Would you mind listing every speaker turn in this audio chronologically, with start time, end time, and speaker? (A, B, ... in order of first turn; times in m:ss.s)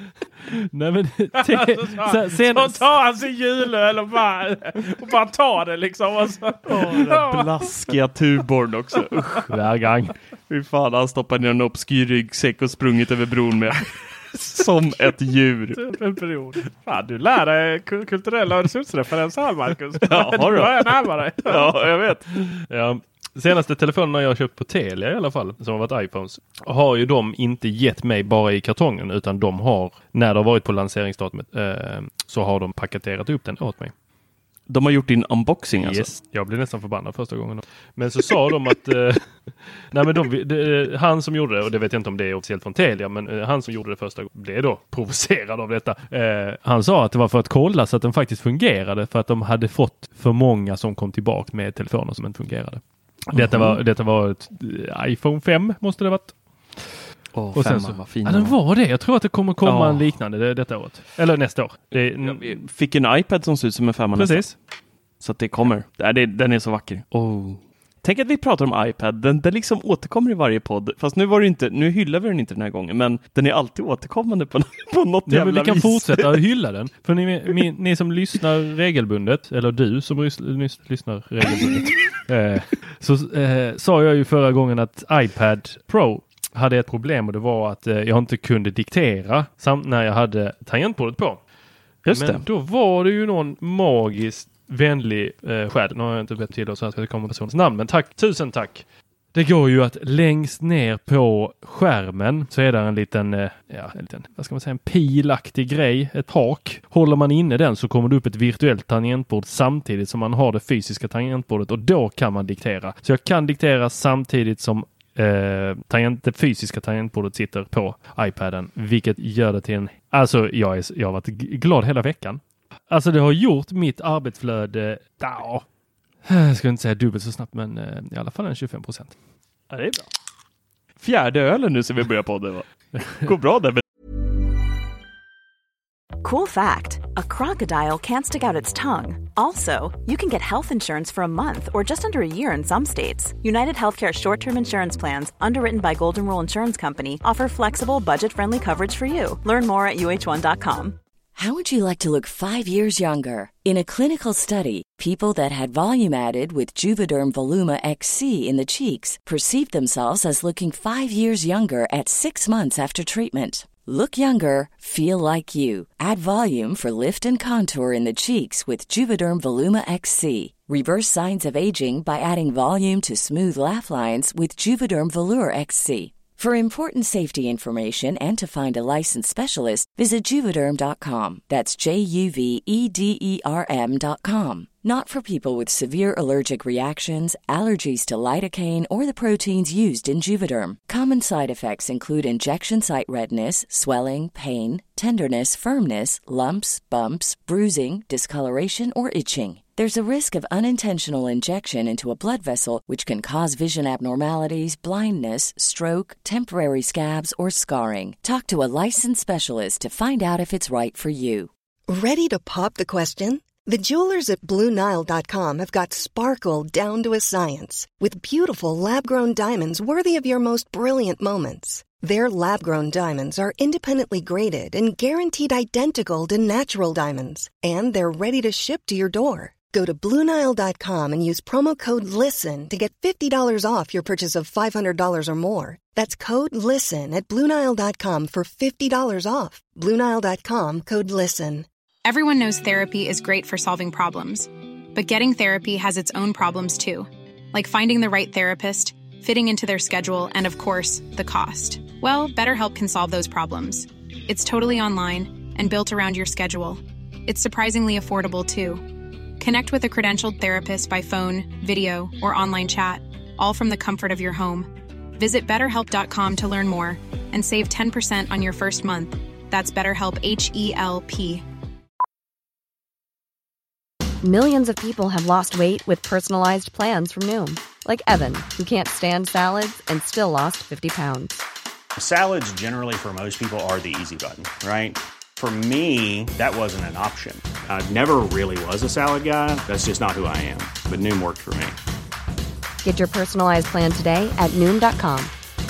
0:00.5-0:02.9 A
0:01.4-0:07.7 B
0:06.7-0:09.5 C
0:09.5-0:10.1 A
0:10.5-0:15.8 C
0:15.7-0:21.8 B
0:20.1-0:20.9 C
0:21.4-0:22.3 C
0:22.7-0:33.9 A
0:34.7-0:36.1 C
0:35.8-0:39.4 A
0:39.9-0:56.8 A
0:53.3-0:53.8 C
0:57.3-0:58.6 C
0:57.6-1:02.6 A
0:59.6-1:00.1 C
1:02.2-1:04.5 C
1:04.2-1:04.5 A
1:05.2-1:16.4 C
1:15.3-1:31.4 A
1:32.1-1:32.4 C
1:32.1-2:05.6 A
2:06.3-2:09.1 A
2:09.7-2:10.0 C
2:11.0-2:13.8 C
2:16.2-2:31.0 D
2:31.4-3:31.5 E
3:31.9-4:01.7 F
4:02.0-4:18.9 G
4:19.4-4:31.4 G
4:34.2-4:41.4 H
4:42.0-4:51.8 I
4:52.8-4:55.3 H